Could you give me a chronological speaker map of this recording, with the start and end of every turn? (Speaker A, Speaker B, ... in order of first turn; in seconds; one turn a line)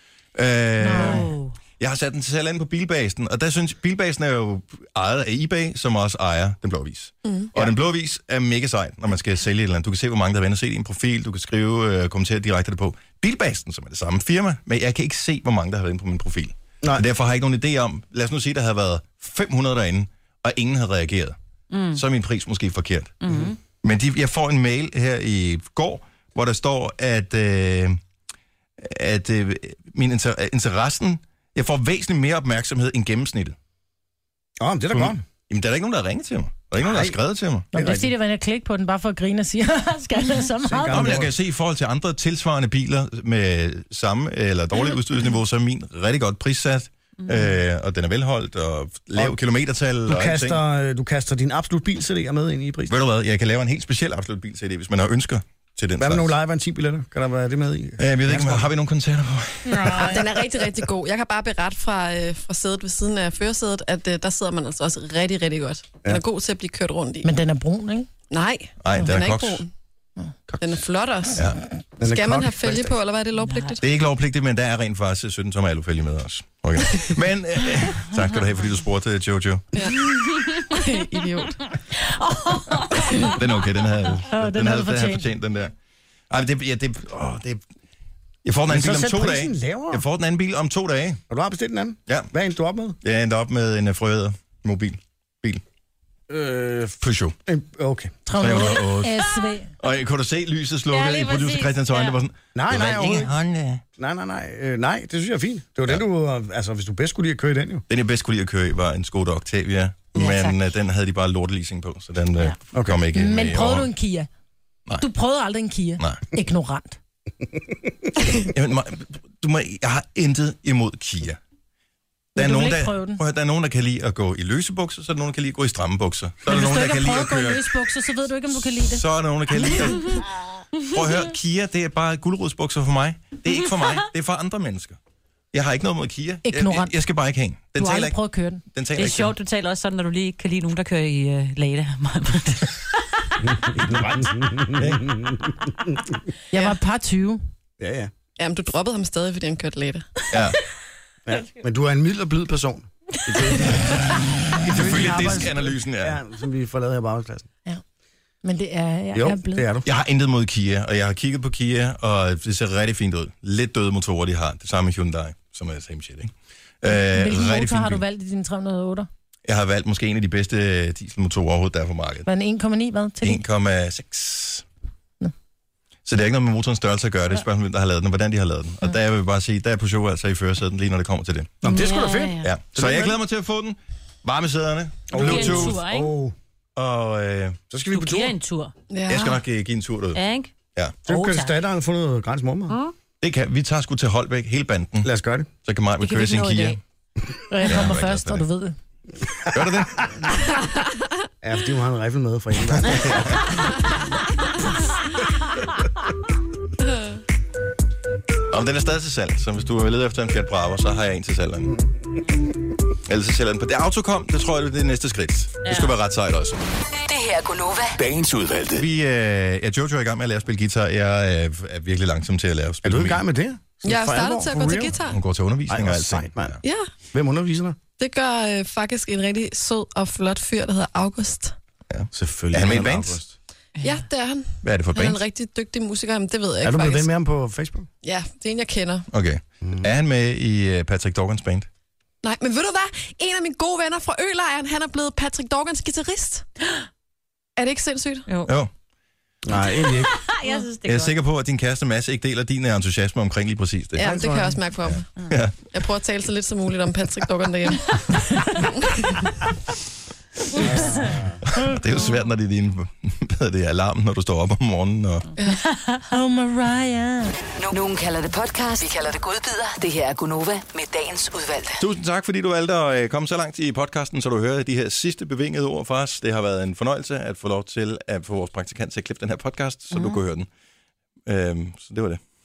Speaker A: 0.3-21.4
Speaker B: 0.8-1.4
Speaker C: 0.9-1.5
Speaker D: 7.2-7.5
Speaker C: 21.7-22.0
Speaker A: 21.9-28.0
Speaker C: 23.2-23.6
Speaker A: 28.8-33.5
Speaker E: 34.6-35.2
Speaker A: 34.9-37.7
Speaker E: 36.8-37.2
Speaker E: 37.7-38.1
Speaker B: 37.7-41.2
Speaker E: 40.6-41.3
Speaker A: 40.9-50.6
Speaker E: 50.1-52.9
Speaker A: 52.9-56.3
Speaker E: 56.0-58.7
Speaker A: 58.0-60.2
Speaker E: 59.7-60.4
Speaker D: 59.9-67.3
Speaker B: 67.2-68.1
Speaker D: 68.3-69.7
Speaker A: 68.8-69.6
Speaker A: 70.5-70.8
Speaker D: 70.6-71.5
Speaker A: 71.3-71.6
Speaker E: 72.0-72.9
Speaker D: 72.0-73.8
Speaker C: 73.4-73.8
Speaker A: 73.8-79.8
Speaker D: 79.8-81.7
Speaker C: 80.0-80.8
Speaker C: 82.0-83.3
Speaker A: 83.2-85.7
Speaker B: 84.3-85.3
Speaker A: 86.3-87.6
Speaker A: 88.5-91.2
Speaker E: 88.7-90.0
Speaker E: 91.3-93.0
Speaker A: 93.0-95.6
Speaker E: 96.3-98.2
Speaker A: 97.0-97.3
Speaker B: 98.3-99.7
Speaker A: 98.4-99.2
Speaker A: 99.8-103.8
Speaker C: 100.9-102.2
Speaker E: 102.5-103.3
Speaker E: 104.0-107.8
Speaker A: 107.9-113.9
Speaker C: 110.2-110.7
Speaker E: 112.7-113.0
Speaker B: 113.2-114.3
Speaker B: 115.0-117.0
Speaker A: 118.4-121.4
Speaker B: 122.4-123.2
Speaker A: 122.4-127.9
Speaker B: 126.5-130.0
Speaker A: 128.8-130.2
Speaker A: 130.9-135.0
Speaker A: 135.5-138.2
Speaker B: 136.4-137.0
Speaker B: 137.8-138.6
Speaker A: 138.7-139.3
Speaker C: 139.0-142.8
Speaker E: 143.5-146.1
Speaker A: 143.8-145.1
Speaker B: 146.5-147.4
Speaker E: 147.8-148.1
Speaker D: 148.4-150.2
Speaker A: 150.3-150.6
Speaker E: 151.3-154.1
Speaker A: 154.6-156.2
Speaker E: 154.6-157.5
Speaker B: 158.4-159.7
Speaker E: 159.1-159.9
Speaker A: 159.8-168.0
Speaker B: 166.9-169.1
Speaker A: 169.5-172.3
Speaker B: 172.2-173.4
Speaker A: 173.2-174.6
Speaker A: 176.1-181.6
Speaker E: 181.6-183.2
Speaker C: 181.6-182.5
Speaker A: 182.4-185.8
Speaker E: 185.1-186.3
Speaker C: 185.1-186.1
Speaker A: 186.8-187.6
Speaker E: 187.7-188.4
Speaker C: 187.9-188.7
Speaker D: 188.9-189.4
Speaker A: 189.1-190.2
Speaker C: 190.1-190.5
Speaker E: 191.1-192.8
Speaker C: 191.1-191.5
Speaker C: 192.7-192.9
Speaker A: 193.2-195.1
Speaker E: 195.0-195.5
Speaker A: 195.6-196.8
Speaker B: 196.0-196.8
Speaker C: 196.2-196.7
Speaker B: 197.5-198.8
Speaker A: 197.6-198.4
Speaker A: 199.4-200.2
Speaker E: 201.4-203.6
Speaker A: 202.8-203.8
Speaker A: 208.5-211.8
Speaker A: 213.1-216.6
Speaker C: 215.6-215.9
Speaker F: 216.9-218.8
Speaker A: 218.8-223.2
Speaker E: 222.8-225.0
Speaker D: 223.8-225.2
Speaker A: 225.1-226.6
Speaker E: 225.7-226.6
Speaker D: 226.6-226.9
Speaker E: 227.1-227.8
Speaker D: 228.0-231.6
Speaker A: 231.9-233.2
Speaker E: 232.1-233.3
Speaker C: 233.8-234.1
Speaker D: 233.8-237.1
Speaker A: 234.6-235.2
Speaker E: 236.6-237.9
Speaker D: 238.0-239.1
Speaker A: 239.1-241.7
Speaker D: 242.2-246.4
Speaker D: 247.6-248.3
Speaker C: 248.3-248.5
Speaker E: 249.4-250.1
Speaker C: 249.7-251.1
Speaker A: 250.8-254.1
Speaker D: 254.0-255.1
Speaker E: 254.0-254.6
Speaker A: 254.8-255.5
Speaker D: 255.7-259.2
Speaker E: 260.6-261.4
Speaker A: 261.4-265.3
Speaker C: 265.5-266.1
Speaker B: 266.1-267.4
Speaker F: 267.6-271.8
Speaker A: 271.8-280.5
Speaker A: 281.3-282.2